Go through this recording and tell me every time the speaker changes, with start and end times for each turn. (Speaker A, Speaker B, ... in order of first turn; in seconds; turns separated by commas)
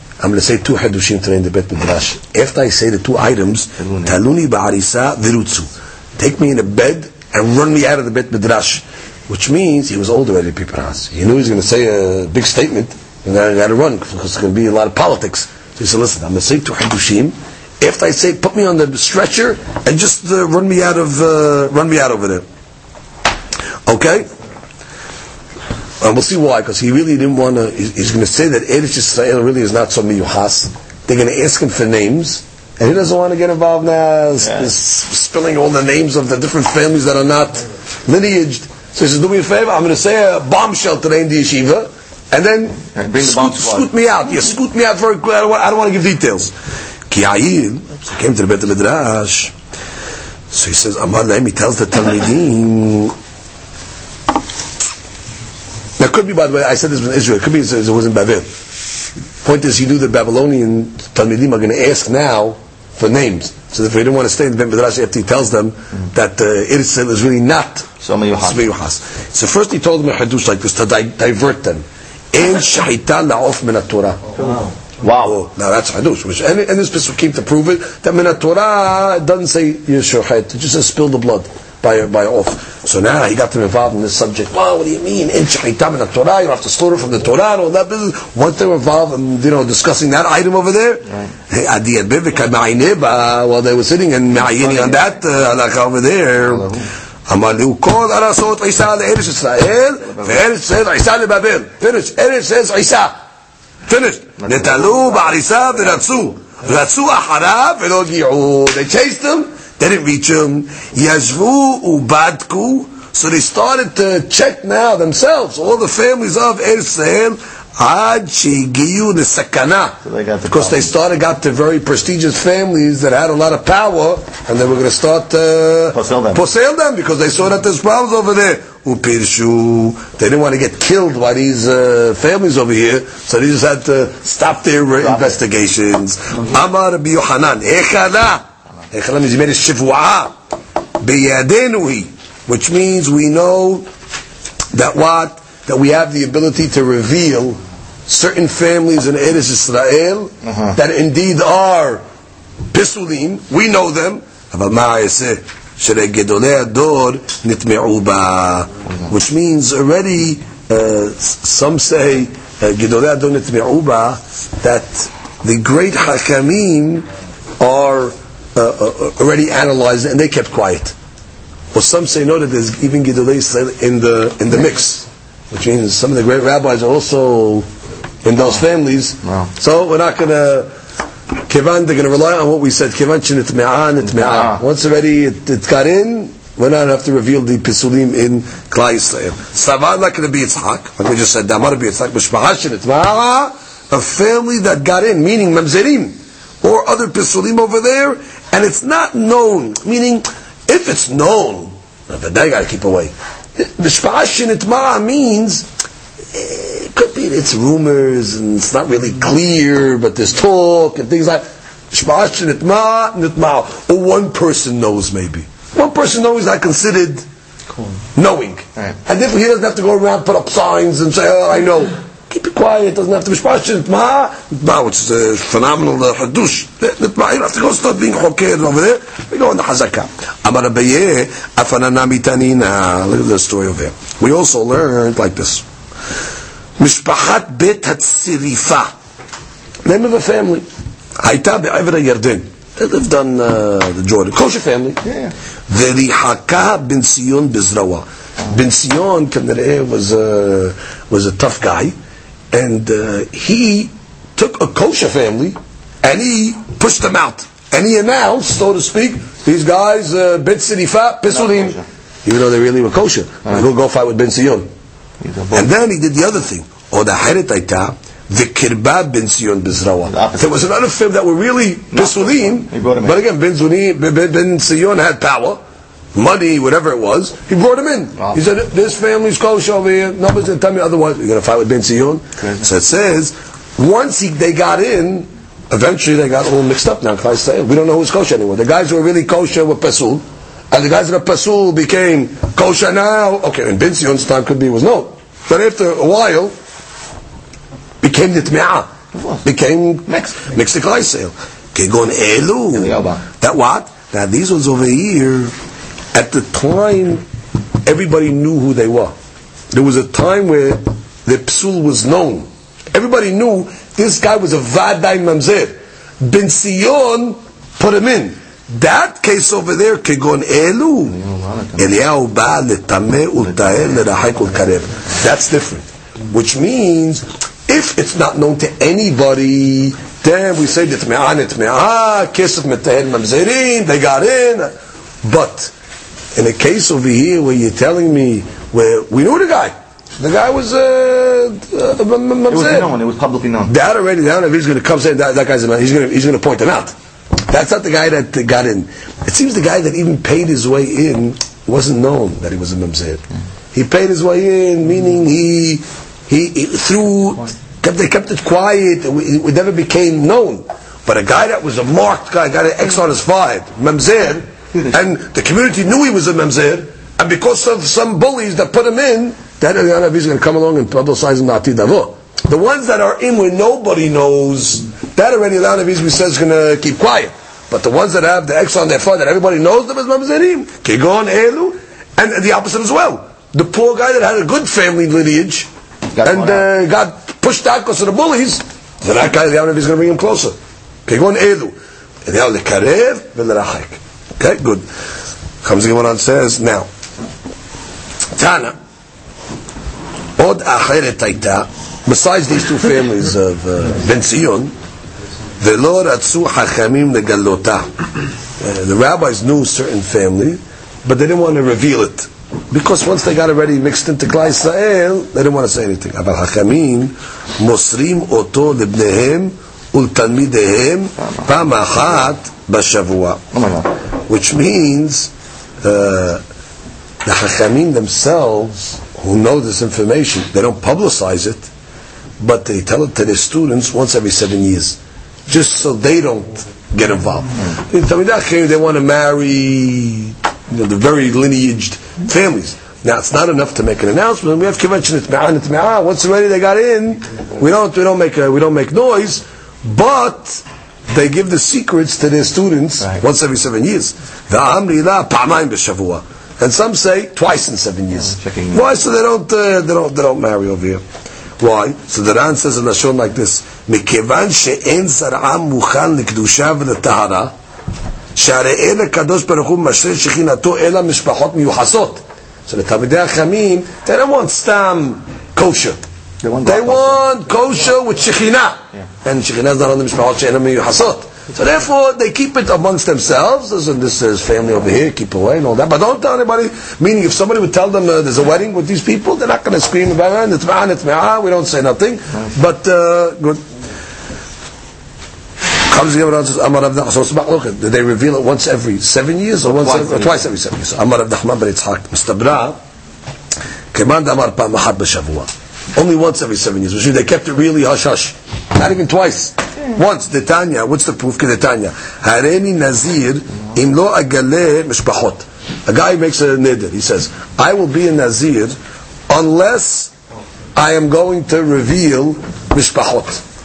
Speaker A: 0.2-22.4, Speaker B: 3.9-4.1, Speaker A: 23.9-24.3, Speaker A: 26.0-46.5, Speaker B: 34.4-34.7, Speaker B: 42.9-43.9, Speaker A: 47.1-49.5, Speaker A: 50.5-53.1, Speaker A: 56.0-58.5, Speaker A: 59.4-74.2, Speaker B: 68.0-68.7, Speaker B: 75.0-75.4, Speaker A: 75.2-96.7, Speaker B: 94.4-95.1, Speaker B: 96.4-96.9, Speaker A: 97.3-103.1, Speaker A: 103.9-140.3, Speaker B: 104.4-106.1, Speaker B: 120.0-120.9, Speaker B: 125.9-126.4, Speaker B: 135.0-135.3, Speaker A: 141.0-143.9, Speaker A: 144.7-152.0, Speaker A: 152.7-167.1, Speaker A: 167.6-170.9, Speaker A: 171.7-177.7, Speaker A: 178.2-180.7, Speaker B: 179.2-179.5, Speaker A: 181.5-205.7, Speaker B: 184.1-184.6, Speaker A: 206.3-217.3, Speaker A: 218.2-235.7, Speaker A: 236.8-238.9, Speaker A: 239.8-240.7, Speaker A: 241.2-245.0, Speaker B: 245.0-245.3, Speaker A: 245.7-251.9, Speaker A: 252.5-264.7, Speaker B: 261.3-261.8, Speaker B: 265.2-265.7, Speaker A: 265.5-275.6, Speaker B: 270.1-270.6, Speaker B: 271.9-273.2, Speaker A: 276.1-296.5, Speaker A: 298.0-298.9, Speaker B: 299.1-299.4, Speaker A: 299.4-305.5, Speaker B: 302.7-303.2, Speaker A: 306.1-307.2, Speaker A: 307.9-309.1, Speaker A: 309.7-321.2, Speaker B: 321.1-321.9, Speaker A: 321.8-334.7, Speaker A: 335.2-335.7, Speaker A: 336.4-342.9, Speaker B: 342.5-343.7, Speaker A: 343.7-346.9, Speaker A: 347.5-353.2, Speaker A: 353.7-385.7, Speaker B: 386.1-386.6, Speaker A: 386.2-390.6, Speaker A: 391.1-394.8, Speaker A: 395.6-396.9, Speaker A: 398.3-398.7, Speaker A: 400.4-404.7, Speaker A: 405.6-407.9, Speaker A: 408.6-423.4, Speaker B: 423.5-423.9, Speaker A: 424.3-425.3, Speaker A: 425.8-426.4, Speaker A: 427.2-431.7, Speaker A: 432.4-461.0, Speaker B: 458.3-458.9, Speaker A: 461.6-467.5, Speaker A: 468.4-476.0, Speaker B: 476.4-477.2, Speaker A: 476.6-493.6, Speaker A: 495.9-502.8, Speaker B: 499.6-500.4, Speaker A: 503.9-518.8, Speaker A: 519.3-520.1, Speaker A: 520.8-523.4